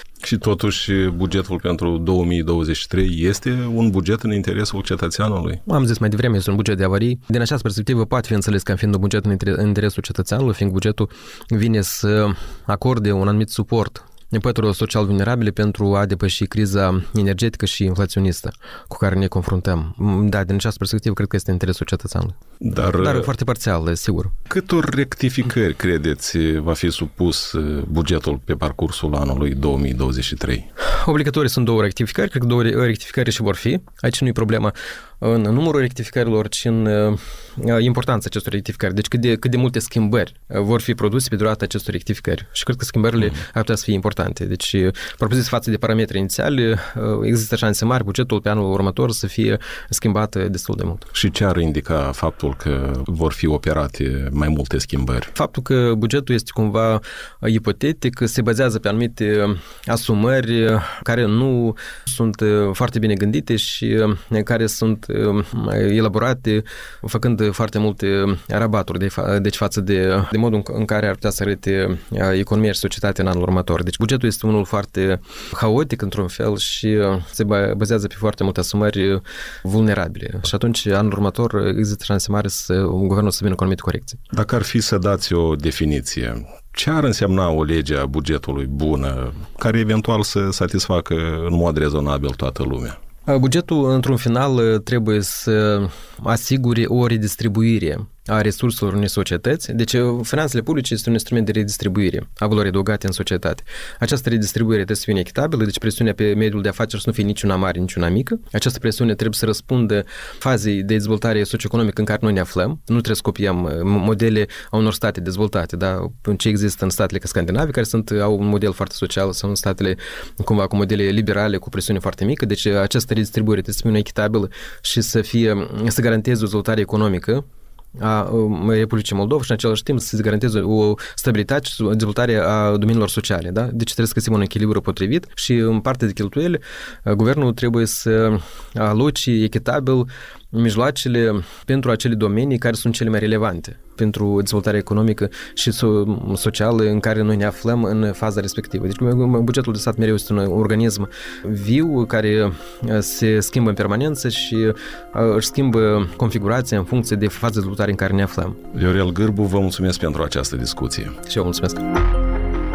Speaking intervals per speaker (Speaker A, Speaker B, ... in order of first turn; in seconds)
Speaker A: 0.2-5.6, 22.6-23.3, 24.5-30.7, 51.1-55.3, 84.3-93.0, 158.7-161.2
Speaker B: 5.7-22.3, 23.0-24.3, 30.9-51.0, 55.3-84.2, 93.3-127.4, 128.0-158.6, 161.2-161.8